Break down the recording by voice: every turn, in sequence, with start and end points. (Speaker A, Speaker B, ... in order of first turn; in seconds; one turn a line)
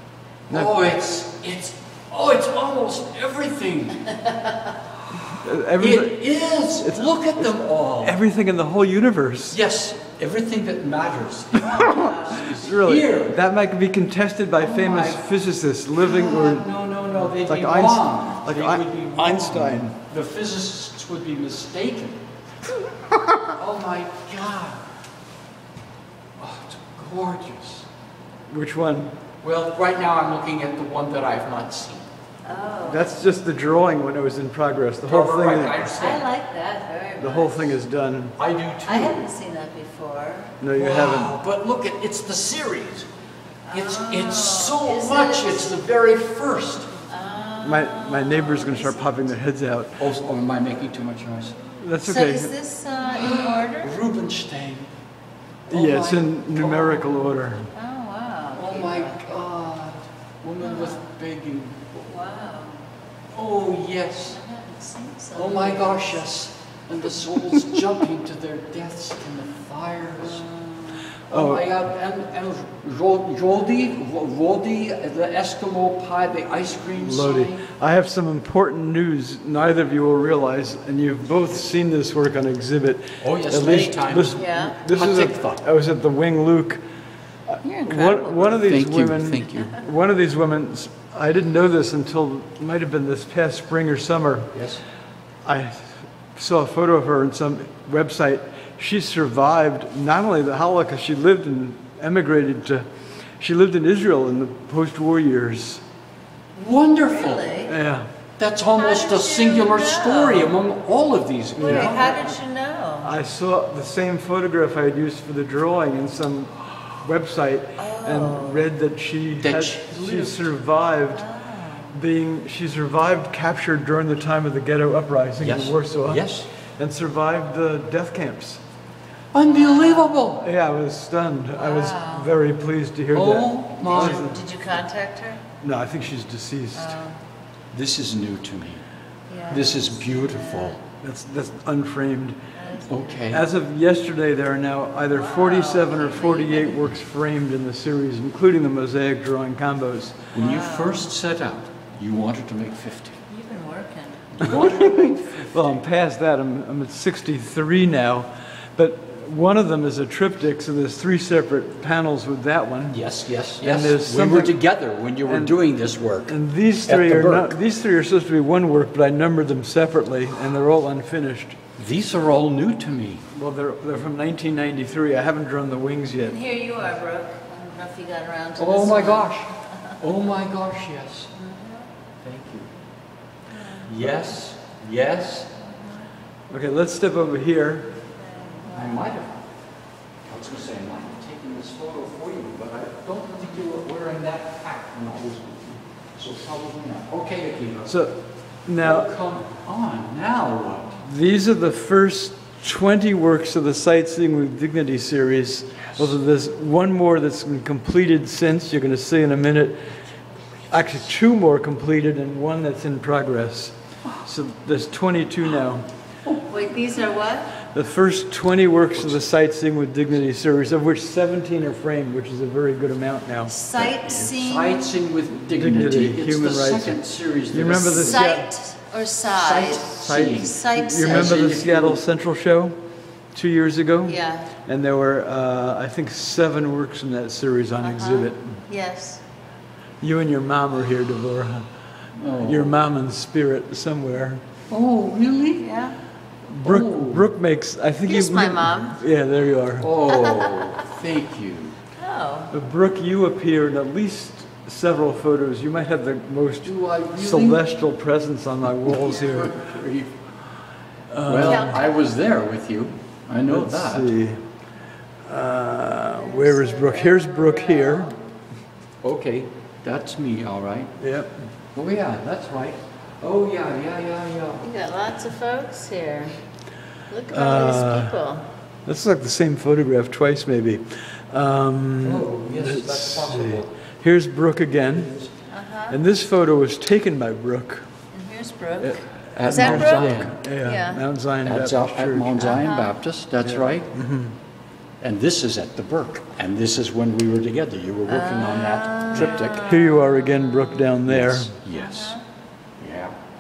Speaker A: 0.5-0.8
Speaker B: 0.5-4.1
Speaker A: 5.3-9.6
Speaker B: 5.8-8.2
Speaker B: 9.5-13.4
Speaker A: 11.6-19.9
Speaker C: 11.8-12.4
Speaker B: 14.6-15.2
Speaker B: 16.0-22.2
Speaker B: 23.6-24.9
Speaker B: 26.4-27.9
Speaker A: 28.5-29.1
Speaker B: 29.4-32.1
Speaker C: 32.5-33.1
Speaker A: 32.8-35.9
Speaker B: 35.0-36.3
Speaker C: 35.9-37.8
Speaker A: 37.2-38.4
Speaker B: 38.4-39.2
Speaker C: 38.8-40.6
Speaker A: 40.6-41.4
Speaker B: 40.7-43.1
Speaker C: 43.7-45.7
Speaker B: 43.7-46.9
Speaker C: 47.1-49.3
Speaker A: 47.6-50.1
Speaker B: 50.0-51.6
Speaker A: 51.7-52.5
Speaker C: 52.0-53.9
Speaker B: 53.0-54.9
Speaker B: 55.7-57.3
Speaker A: 55.7-57.7
Speaker C: 57.8-59.2
Speaker B: 58.5-62.1
Speaker C: 60.6-61.0
Speaker C: 62.1-62.8
Speaker B: 63.3-64.4
Speaker C: 64.3-66.2
Speaker B: 65.3-70.5
Speaker C: 70.4-71.1
Speaker B: 71.3-77.6
Speaker A: 71.3-71.7
Speaker A: 77.0-86.8
Speaker B: 83.2-85.6
Speaker C: 84.3-84.8
Speaker A: 87.5-94.6
Speaker C: 87.6-88.5
Speaker B: 88.5-89.8
Speaker B: 94.5-94.8
Speaker A: 95.5-102.9
Speaker A: 103.4-105.8
Speaker B: 106.5-107.6
Speaker C: 107.1-107.7
Speaker A: 107.7-108.1
Speaker B: 108.4-112.3
Speaker C: 108.7-110.5
Speaker A: 111.6-112.1
Speaker C: 111.6-113.1
Speaker A: 113.0-121.3
Speaker C: 117.8-118.7
Speaker B: 119.4-120.5
Speaker C: 121.1-122.0
Speaker A: 121.9-128.6
Speaker B: 125.4-126.5
Speaker B: 129.3-130.5
Speaker C: 129.5-130.3
Speaker A: 130.4-134.4
Speaker C: 131.6-132.3
Speaker B: 133.1-134.2
Speaker C: 133.9-135.4
Speaker A: 135.6-137.0
Speaker C: 136.8-137.2
Speaker B: 137.7-138.8
Speaker C: 139.3-140.8
Speaker B: 139.5-140.8
Speaker A: 141.0-142.4
Speaker C: 142.6-143.3
Speaker B: 142.9-143.4
Speaker A: 143.3-150.3
Speaker C: 145.1-146.9
Speaker B: 150.3-153.2
Speaker C: 150.4-151.1
Speaker C: 153.3-154.3
Speaker B: 154.3-155.8
Speaker A: 154.4-163.0
Speaker B: 162.9-167.6
Speaker A: 163.6-164.6
Speaker A: 165.2-165.6
Speaker A: 166.3-171.6
Speaker B: 171.8-173.2
Speaker A: 173.3-176.4
Speaker C: 176.2-180.0
Speaker B: 178.6-181.3
Speaker C: 181.4-181.9
Speaker B: 182.2-182.7
Speaker C: 183.5-183.9
Speaker B: 183.9-185.5
Speaker C: 185.7-186.1
Speaker A: 186.5-188.0
Speaker C: 188.3-189.1
Speaker B: 188.7-189.4
Speaker B: 190.2-197.9
Speaker A: 197.9-199.1
Speaker B: 198.8-201.1
Speaker A: 201.0-209.8
Speaker A: 210.7-215.9
Speaker C: 216.4-217.5
Speaker A: 217.7-223.6
Speaker C: 223.5-224.9
Speaker B: 223.8-228.3
Speaker A: 225.5-228.5
Speaker C: 227.9-231.2
Speaker B: 229.3-232.0
Speaker A: 230.0-232.8
Speaker A: 233.3-238.6
Speaker C: 234.1-234.5
Speaker C: 237.8-239.2
Speaker A: 240.0-241.7
Speaker B: 242.2-242.8
Speaker A: 242.4-244.4
Speaker B: 244.7-245.7
Speaker C: 245.5-246.0
Speaker A: 246.5-249.9
Speaker B: 246.6-247.3
Speaker C: 248.1-249.0
Speaker B: 249.8-251.8
Speaker C: 250.1-250.7
Speaker C: 252.0-252.5
Speaker A: 252.5-259.6
Speaker B: 256.6-257.6
Speaker B: 258.8-260.2
Speaker A: 261.1-261.8
Speaker B: 261.2-264.1
Speaker C: 261.4-261.8
Speaker A: 263.5-264.4
Speaker A: 265.3-268.1
Speaker C: 266.1-268.1
Speaker B: 269.0-270.9
Speaker A: 271.0-271.4
Speaker B: 271.7-274.6
Speaker C: 274.6-276.4
Speaker C: 277.1-278.5
Speaker A: 277.3-278.2
Speaker A: 278.9-285.1
Speaker B: 282.0-283.7
Speaker B: 284.9-285.3
Speaker C: 285.5-286.0
Speaker A: 285.9-287.9
Speaker C: 288.1-291.0
Speaker A: 288.8-292.6
Speaker B: 289.3-290.4
Speaker B: 291.4-293.9
Speaker C: 292.4-293.0
Speaker A: 293.4-294.4
Speaker B: 295.0-299.7
Speaker C: 298.1-300.9
Speaker A: 299.1-301.6
Speaker B: 301.1-302.2
Speaker C: 301.7-302.2
Speaker B: 302.8-303.1